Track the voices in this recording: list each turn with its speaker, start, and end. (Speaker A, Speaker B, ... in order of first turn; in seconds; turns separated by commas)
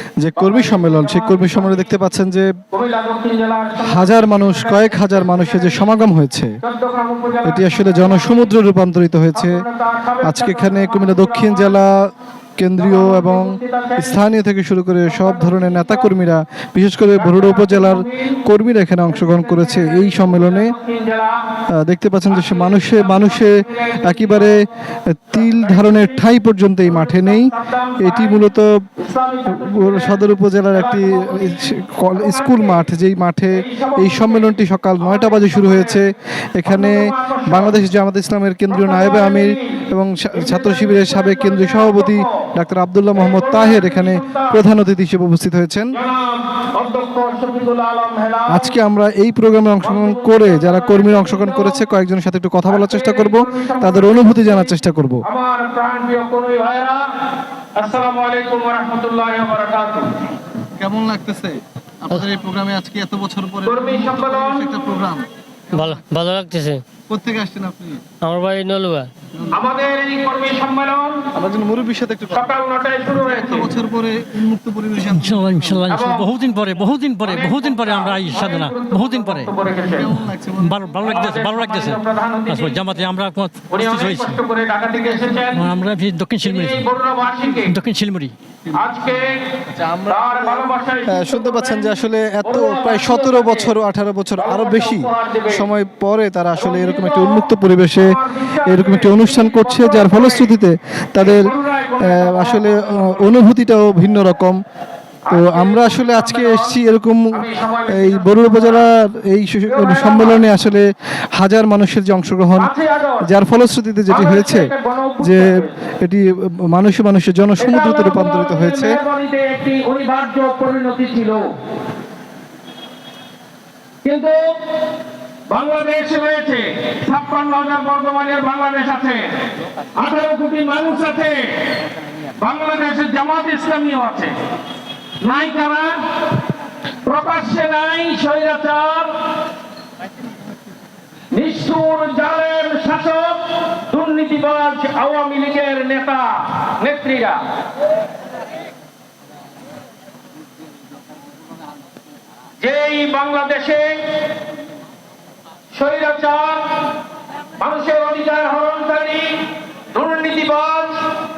Speaker A: 0.2-2.5, Speaker B: 0.4-1.9, Speaker B: 2.7-5.9, Speaker A: 3.9-6.6, Speaker B: 6.6-8.5, Speaker A: 7.4-9.6, Speaker B: 9.3-11.8, Speaker A: 10.2-20.8, Speaker B: 12.8-14.2, Speaker B: 15.1-16.1, Speaker B: 17.1-18.4, Speaker B: 19.1-21.4, Speaker A: 21.7-28.7, Speaker B: 22.3-24.7, Speaker B: 25.3-26.3, Speaker B: 26.9-28.4, Speaker B: 29.0-32.8, Speaker A: 29.5-45.9, Speaker B: 33.5-36.0, Speaker B: 36.6-37.8, Speaker B: 38.7-39.8, Speaker B: 40.3-42.5, Speaker B: 43.1-44.6, Speaker B: 45.9-48.7, Speaker A: 48.5-55.2, Speaker B: 49.8-51.9, Speaker B: 52.7-57.0, Speaker B: 57.8-60.1, Speaker A: 60.8-66.1, Speaker B: 63.6-64.8, Speaker C: 65.7-66.8, Speaker A: 67.1-68.1, Speaker C: 68.2-69.1, Speaker B: 69.5-71.2, Speaker A: 71.3-72.6, Speaker B: 72.3-73.7, Speaker A: 73.1-76.0, Speaker D: 75.1-79.5, Speaker B: 75.9-76.3, Speaker B: 77.2-80.1, Speaker A: 79.8-81.5, Speaker D: 80.6-84.4, Speaker B: 81.0-82.9, Speaker B: 83.7-85.7, Speaker A: 84.9-85.5, Speaker D: 85.5-86.9, Speaker B: 86.4-87.8, Speaker D: 87.5-88.3, Speaker B: 88.7-89.4, Speaker A: 89.7-104.6, Speaker B: 90.1-93.7, Speaker B: 94.4-95.7, Speaker B: 96.6-100.5, Speaker B: 101.2-103.4, Speaker B: 105.3-108.9, Speaker A: 105.3-119.0, Speaker B: 109.7-110.5, Speaker B: 112.6-113.3, Speaker B: 114.1-115.7, Speaker B: 117.6-121.5, Speaker B: 124.0-124.4, Speaker B: 125.5-129.4, Speaker B: 130.0-131.5, Speaker B: 132.4-134.3, Speaker B: 135.2-136.0, Speaker B: 137.0-139.1, Speaker B: 141.3-147.4, Speaker B: 152.6-154.0, Speaker B: 155.7-156.7, Speaker B: 157.6-159.3, Speaker B: 159.9-160.9